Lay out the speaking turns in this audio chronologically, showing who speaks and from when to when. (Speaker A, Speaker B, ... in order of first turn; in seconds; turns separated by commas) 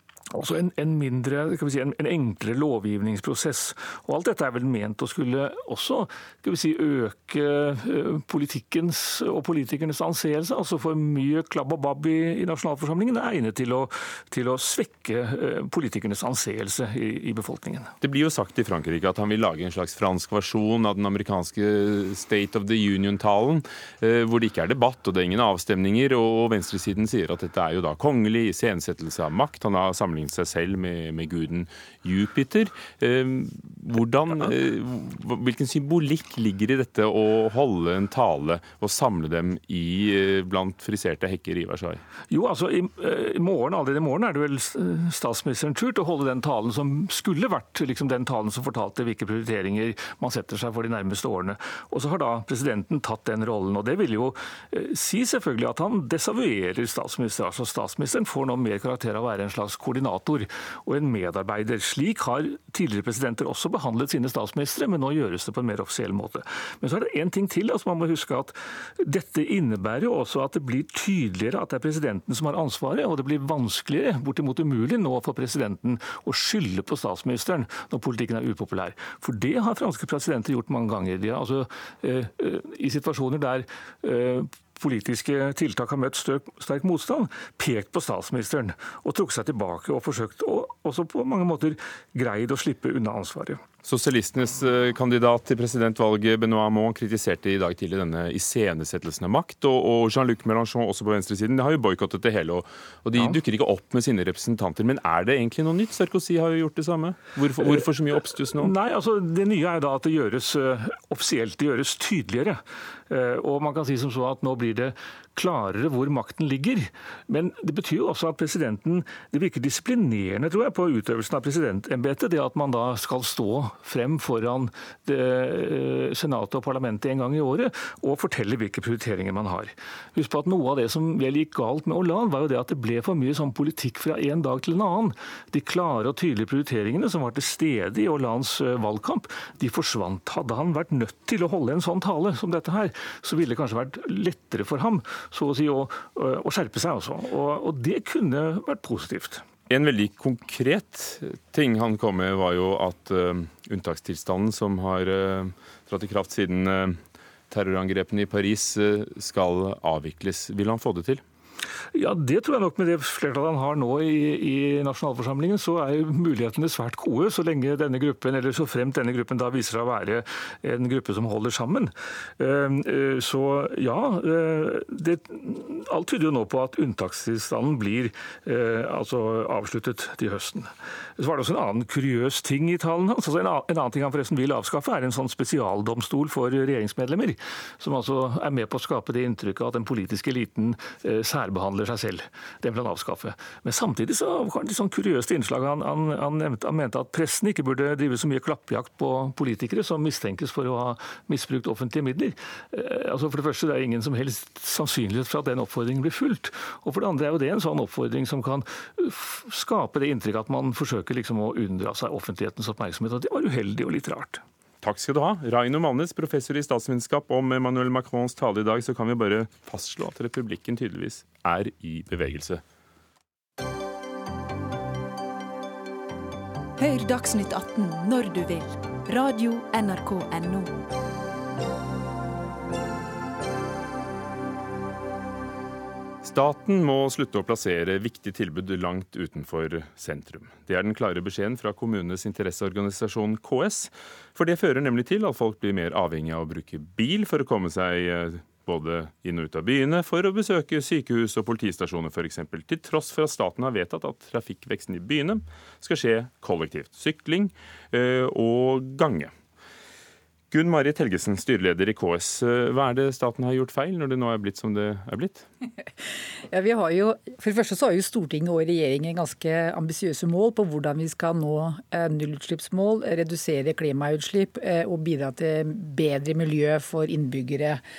Speaker A: 0.3-17.9, Speaker B: 18.0-42.0, Speaker A: 42.3-93.6, Speaker B: 93.8-108.7, Speaker A: 107.6-107.9, Speaker A: 108.5-149.4, Speaker B: 149.7-157.0, Speaker B: 157.5-161.2, Speaker A: 161.9-214.4, Speaker B: 214.8-222.6, Speaker C: 226.8-230.8, Speaker B: 236.2-259.3, Speaker B: 260.5-265.4, Speaker D: 266.5-277.8